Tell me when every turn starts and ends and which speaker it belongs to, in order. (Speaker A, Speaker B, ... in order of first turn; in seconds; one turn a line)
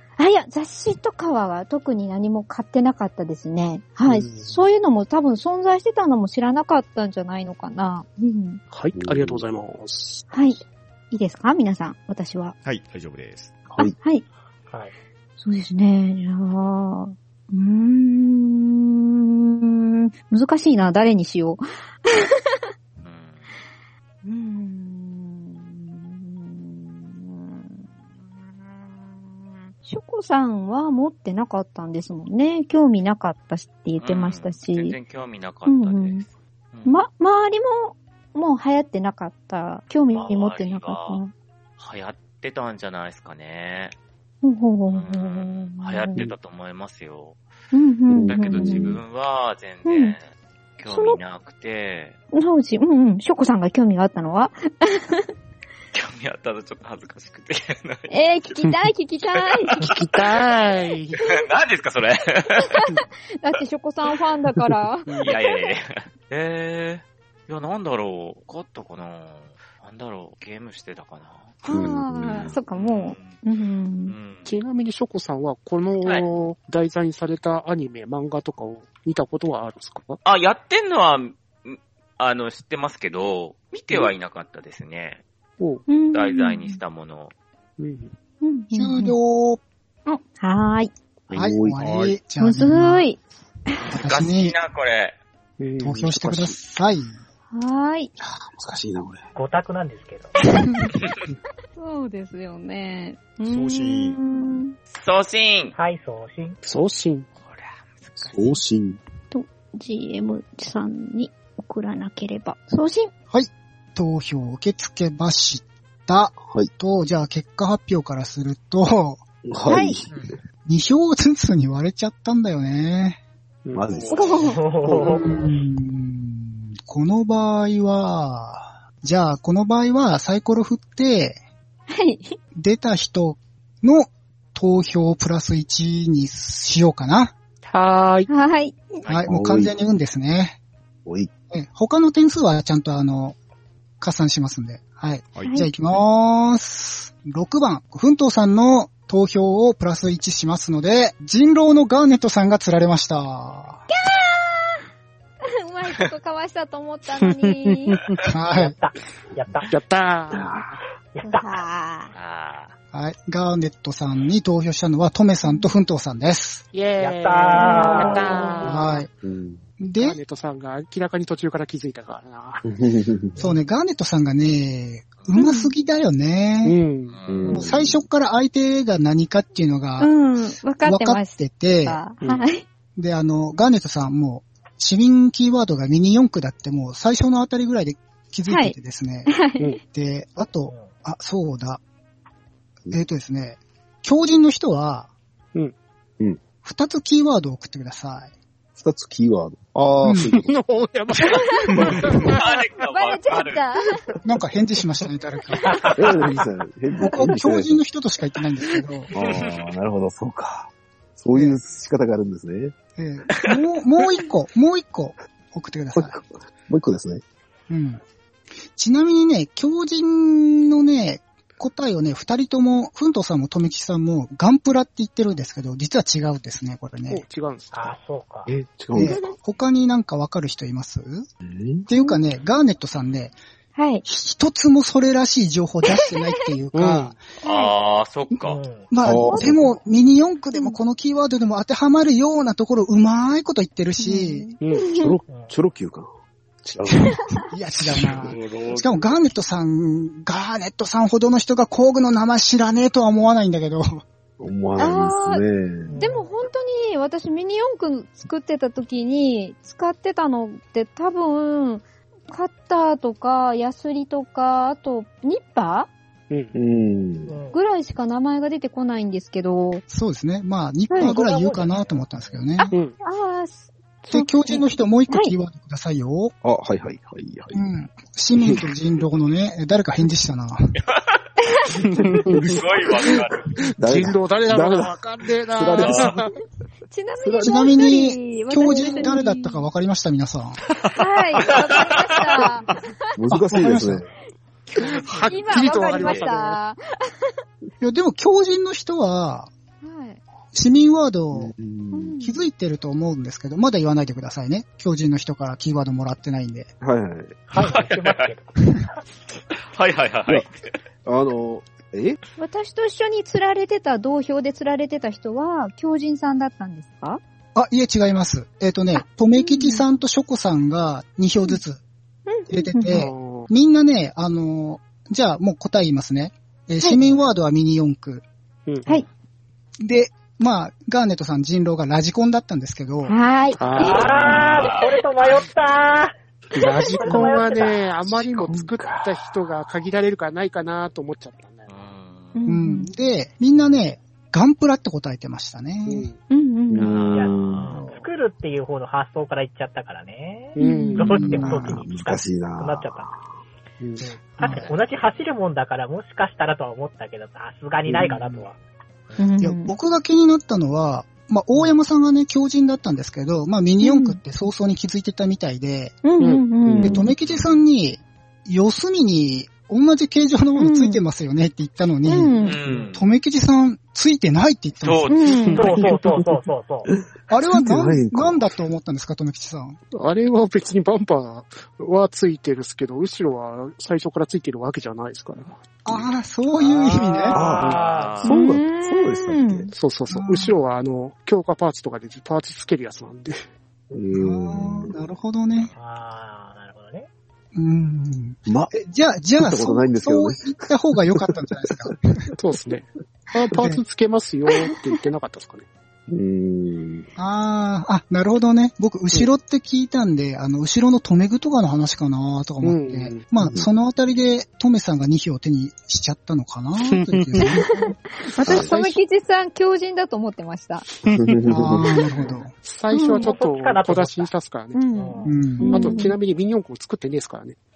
Speaker A: 0.2-8.6
Speaker B: 4.1-4.5
Speaker B: 8.7-10.2
Speaker C: 8.9-9.4
Speaker A: 10.3-10.6
Speaker A: 11.1-12.5
Speaker D: 12.6-13.6
Speaker C: 13.7-13.9
Speaker A: 13.8-14.2
Speaker A: 15.4-22.7
Speaker E: 23.0-23.5
Speaker A: 24.2-35.0
Speaker E: 34.0-37.0
Speaker A: 35.7-36.2
Speaker A: 36.9-41.3
Speaker E: 40.1-41.2
Speaker E: 41.8-44.0
Speaker A: 44.4-46.2
Speaker E: 44.9-47.4
Speaker A: 47.7-49.0
Speaker C: 48.1-49.0
Speaker E: 48.3-50.2
Speaker A: 49.9-50.1
Speaker E: 50.8-52.2
Speaker A: 50.9-51.2
Speaker A: 52.3-55.3
Speaker E: 55.9-58.1
Speaker A: 58.1-59.9
Speaker E: 59.3-59.9
Speaker B: 59.8-61.2
Speaker E: 61.2-62.8
Speaker A: 62.6-65.5
Speaker B: 65.1-65.3
Speaker E: 65.2-71.6
Speaker A: 71.6-74.2
Speaker C: 71.7-72.5
Speaker E: 72.3-73.4
Speaker E: 74.1-74.5
Speaker B: 74.5-80.2
Speaker E: 80.2-85.2
Speaker B: 85.6-85.8
Speaker A: 85.9-86.8
Speaker E: 86.1-87.3
Speaker B: 87.8-88.1
Speaker A: 88.4-89.2
Speaker F: 88.7-89.6
Speaker A: 90.1-90.9
Speaker C: 91.3-92.1
Speaker F: 91.3-93.1
Speaker D: 91.8-92.1
Speaker A: 92.4-94.0
Speaker E: 93.9-95.2
Speaker F: 93.9-94.6
Speaker B: 95.6-96.5
Speaker F: 95.8-97.2
Speaker A: 97.5-98.1
Speaker C: 98.2-99.2
Speaker G: 99.3-100.3
Speaker A: 101.8-104.8
Speaker D: 103.5-104.2
Speaker E: 104.9-105.7
Speaker G: 105.8-106.6
Speaker B: 106.6-107.3
Speaker E: 107.4-108.6
Speaker C: 108.2-109.0
Speaker A: 109.3-113.1
Speaker F: 113.3-119.2
Speaker C: 119.5-120.3
Speaker A: 119.7-120.0
Speaker F: 120.7-123.2
Speaker B: 123.6-124.2
Speaker C: 123.7-125.2
Speaker A: 124.1-124.6
Speaker G: 124.3-125.4
Speaker F: 125.0-131.4
Speaker A: 131.9-132.4
Speaker F: 132.5-137.3
Speaker B: 137.6-138.3
Speaker A: 138.3-139.1
Speaker F: 139.1-140.6
Speaker C: 139.3-139.7
Speaker F: 141.5-143.4
Speaker F: 144.0-153.8
Speaker D: 145.4-145.6
Speaker A: 145.4-145.7
Speaker A: 153.9-154.8
Speaker A: 155.4-158.0
Speaker B: 157.1-158.2
Speaker F: 158.3-158.8
Speaker G: 158.5-159.8
Speaker B: 159.7-160.7
Speaker C: 160.3-160.7
Speaker G: 161.1-161.5
Speaker A: 161.2-162.1
Speaker E: 162.1-162.8
Speaker F: 162.9-166.6
Speaker A: 165.4-165.7
Speaker B: 166.7-169.0
Speaker G: 167.0-168.7
Speaker A: 167.6-168.4
Speaker F: 168.6-169.1
Speaker C: 169.2-169.6
Speaker F: 169.8-170.2
Speaker B: 170.0-172.7
Speaker C: 172.6-173.4
Speaker F: 173.4-176.8
Speaker A: 175.3-175.7
Speaker B: 176.6-177.2
Speaker E: 177.1-177.7
Speaker C: 177.3-178.0
Speaker F: 177.5-180.2
Speaker A: 180.0-182.7
Speaker F: 180.8-182.0
Speaker F: 183.0-191.8
Speaker A: 188.5-189.8
Speaker G: 190.7-190.9
Speaker F: 192.9-195.1
Speaker F: 196.6-198.3
Speaker C: 198.8-200.5
Speaker F: 200.0-200.3
Speaker B: 200.2-202.6
Speaker A: 201.4-201.7
Speaker E: 202.3-203.7
Speaker A: 202.9-204.0
Speaker F: 204.2-205.7
Speaker C: 206.0-207.8
Speaker F: 207.0-209.1
Speaker C: 209.1-212.8
Speaker E: 209.2-209.5
Speaker F: 211.3-211.6
Speaker F: 213.0-216.2
Speaker C: 216.0-217.2
Speaker F: 217.7-218.0
Speaker F: 218.7-227.2
Speaker B: 227.1-228.0
Speaker G: 227.7-228.5
Speaker C: 228.5-229.2
Speaker F: 228.9-231.3
Speaker A: 229.0-229.3
Speaker C: 231.4-231.8
Speaker F: 231.9-233.3
Speaker A: 231.9-232.2
Speaker A: 233.8-234.0
Speaker F: 234.0-237.2
Speaker A: 235.8-236.5
Speaker B: 236.7-237.2
Speaker A: 237.4-237.7
Speaker E: 237.4-238.6
Speaker G: 238.4-238.9
Speaker F: 238.9-244.5
Speaker C: 239.0-239.8
Speaker A: 240.5-240.8
Speaker A: 244.0-245.2
Speaker B: 244.6-244.9
Speaker C: 245.0-246.1
Speaker G: 245.3-245.6
Speaker C: 246.6-247.1
Speaker A: 247.0-247.5
Speaker F: 247.5-254.0
Speaker E: 248.2-249.1
Speaker C: 254.4-255.9
Speaker A: 254.8-255.4
Speaker G: 255.9-256.4
Speaker A: 256.0-265.9
Speaker B: 266.3-266.6
Speaker C: 266.5-267.3
Speaker G: 267.3-267.6
Speaker A: 267.5-269.8
Speaker F: 269.9-272.7
Speaker A: 270.9-271.2
Speaker G: 271.0-272.5
Speaker A: 272.6-275.3
Speaker B: 272.7-273.0
Speaker F: 274.1-276.3
Speaker C: 276.4-277.6
Speaker F: 277.5-280.6
Speaker A: 281.4-281.7
Speaker B: 281.9-282.6
Speaker C: 282.0-286.2
Speaker E: 282.4-283.5
Speaker B: 283.8-286.3
Speaker A: 286.9-289.7
Speaker C: 287.2-287.8
Speaker F: 287.4-290.6
Speaker A: 290.9-293.2
Speaker E: 291.4-292.5
Speaker C: 293.2-294.1
Speaker F: 293.3-294.1
Speaker A: 294.7-297.3
Speaker B: 294.8-296.6
Speaker E: 294.8-296.3
Speaker F: 297.8-299.5
Speaker A: 299.8-300.2
Speaker F: 300.5-301.5
Speaker C: 301.3-302.1
Speaker A: 301.9-302.5
Speaker F: 302.2-306.7
Speaker C: 306.8-307.4
Speaker G: 307.5-308.6
Speaker E: 307.6-308.3
Speaker E: 309.7-310.7
Speaker C: 311.0-312.2
Speaker A: 312.4-317.2
Speaker F: 317.5-321.8
Speaker A: 318.9-319.8
Speaker A: 322.3-323.0
Speaker F: 322.5-328.2
Speaker B: 322.8-323.5
Speaker G: 327.0-327.3
Speaker F: 329.8-333.2
Speaker A: 333.0-334.1
Speaker B: 333.6-334.0
Speaker G: 333.7-337.9
Speaker E: 333.9-335.4
Speaker B: 336.5-341.7
Speaker C: 337.1-337.4
Speaker C: 338.0-339.8
Speaker E: 341.7-342.4
Speaker A: 342.3-342.9
Speaker F: 342.5-346.1
Speaker B: 345.9-346.2
Speaker A: 346.3-347.0
Speaker C: 346.7-347.7
Speaker E: 346.8-347.9
Speaker G: 347.1-353.1
Speaker A: 350.6-351.3
Speaker F: 351.0-351.8
Speaker C: 351.4-353.4
Speaker B: 353.8-354.2
Speaker G: 354.0-358.6
Speaker F: 354.4-354.7
Speaker C: 357.9-358.1
Speaker F: 358.0-358.4
Speaker A: 359.2-359.7
Speaker F: 359.4-366.0
Speaker A: 363.8-364.2
Speaker A: 366.0-367.1
Speaker B: 366.2-367.0
Speaker C: 366.7-367.1
Speaker F: 366.8-372.4
Speaker E: 367.2-367.6
Speaker A: 370.6-371.0
Speaker A: 372.0-372.6
Speaker E: 372.4-373.0
Speaker G: 372.6-372.9
Speaker F: 372.9-375.2
Speaker E: 374.8-375.7
Speaker A: 375.1-375.7
Speaker G: 375.5-376.9
Speaker C: 375.6-376.3
Speaker C: 376.9-378.5
Speaker F: 377.3-379.8
Speaker B: 379.9-385.6
Speaker F: 385.8-387.4
Speaker G: 386.6-388.2
Speaker E: 387.3-388.4
Speaker C: 387.3-389.7
Speaker A: 388.2-389.7
Speaker B: 389.7-393.4
Speaker F: 390.1-390.5
Speaker C: 393.9-394.9
Speaker F: 394.1-395.7
Speaker G: 395.7-397.1
Speaker F: 397.5-402.2
Speaker C: 398.5-398.8
Speaker C: 399.4-401.0
Speaker B: 402.4-405.7
Speaker F: 403.5-403.8
Speaker A: 404.5-404.8
Speaker C: 406.1-407.1
Speaker F: 407.2-417.7
Speaker B: 412.6-413.3
Speaker C: 413.4-413.7
Speaker B: 416.8-417.6
Speaker A: 417.4-420.9
Speaker C: 418.4-418.8
Speaker F: 418.5-418.9
Speaker B: 420.9-421.4
Speaker C: 421.1-422.3
Speaker F: 421.5-422.5
Speaker B: 422.6-424.8
Speaker A: 422.9-423.3
Speaker G: 423.1-424.3
Speaker A: 424.7-426.2
Speaker G: 424.9-425.4
Speaker F: 425.2-426.0
Speaker B: 425.7-427.6